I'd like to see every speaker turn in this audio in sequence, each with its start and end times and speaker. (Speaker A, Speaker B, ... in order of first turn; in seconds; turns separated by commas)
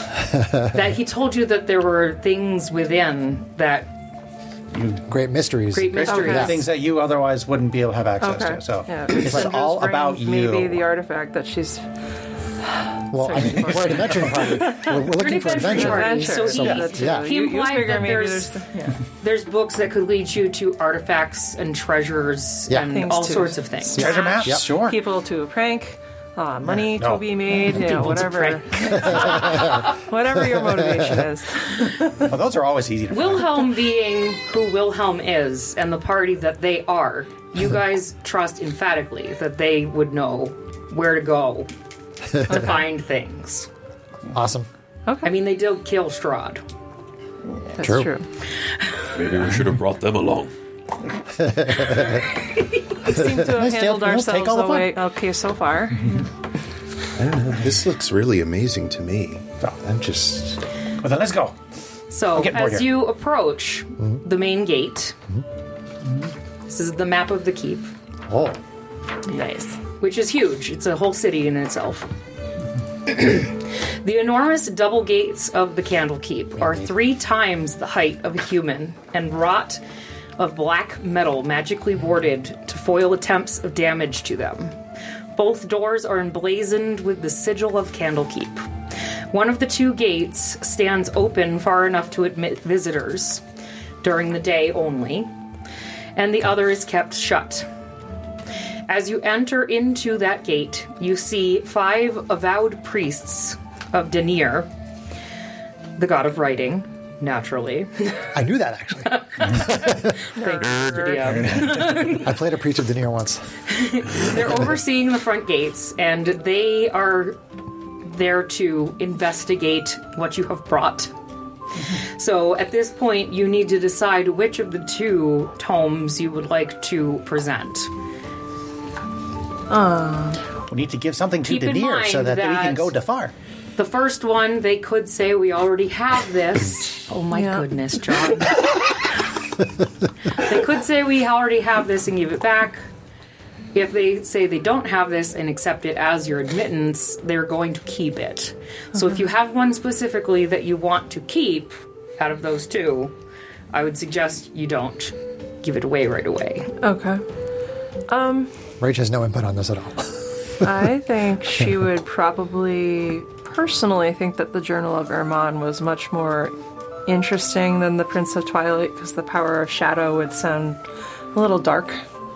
Speaker A: 0.7-3.9, Speaker B: 4.7-5.0, Speaker C: 5.1-6.5, Speaker A: 5.7-6.6, Speaker B: 6.0-10.8, Speaker D: 6.1-6.7, Speaker D: 8.2-11.8, Speaker C: 9.2-9.5, Speaker D: 12.6-14.9, Speaker C: 13.1-17.3, Speaker A: 14.9-18.6, Speaker D: 15.6-19.0, Speaker A: 19.1-24.3, Speaker D: 22.8-32.3, Speaker C: 23.9-24.7, Speaker B: 23.9-25.0, Speaker B: 26.6-28.2, Speaker B: 32.2-33.6, Speaker A: 33.1-41.7, Speaker A: 42.4-43.7, Speaker C: 44.3-44.7, Speaker D: 45.0-45.4, Speaker A: 45.2-46.6, Speaker D: 47.8-48.2, Speaker C: 47.8-48.1, Speaker E: 49.1-50.5, Speaker C: 51.5-52.0, Speaker D: 53.0-56.2, Speaker C: 53.1-53.7, Speaker B: 53.6-54.9, Speaker F: 57.1-60.6, Speaker B: 61.0-61.5, Speaker A: 62.1-65.2, Speaker B: 62.3-62.9, Speaker A: 66.7-67.9, Speaker C: 68.3-68.6, Speaker D: 69.3-69.8, Speaker A: 70.0-72.1, Speaker A: 73.1-79.8, Speaker C: 76.6-76.9, Speaker A: 80.4-84.8, Speaker A: 85.3-88.6, Speaker A: 89.3-93.4, Speaker A: 94.0-95.3, Speaker A: 96.2-97.7, Speaker A: 98.9-104.7, Speaker A: 106.0-108.3, Speaker C: 108.3-110.0, Speaker A: 109.4-112.3, Speaker D: 110.3-111.7, Speaker E: 110.6-111.3, Speaker C: 112.0-113.4, Speaker A: 113.7-117.4, Speaker A: 118.0-121.1, Speaker A: 122.0-127.9, Speaker D: 129.7-130.4, Speaker B: 130.7-133.3, Speaker A: 131.4-132.9, Speaker A: 133.8-138.8, Speaker D: 137.3-137.7, Speaker A: 140.3-142.8, Speaker A: 143.7-153.1, Speaker A: 153.7-156.7, Speaker D: 156.8-157.2, Speaker D: 158.1-158.5, Speaker C: 158.8-160.7, Speaker D: 160.6-166.5, Speaker D: 167.1-170.8, Speaker D: 171.3-172.0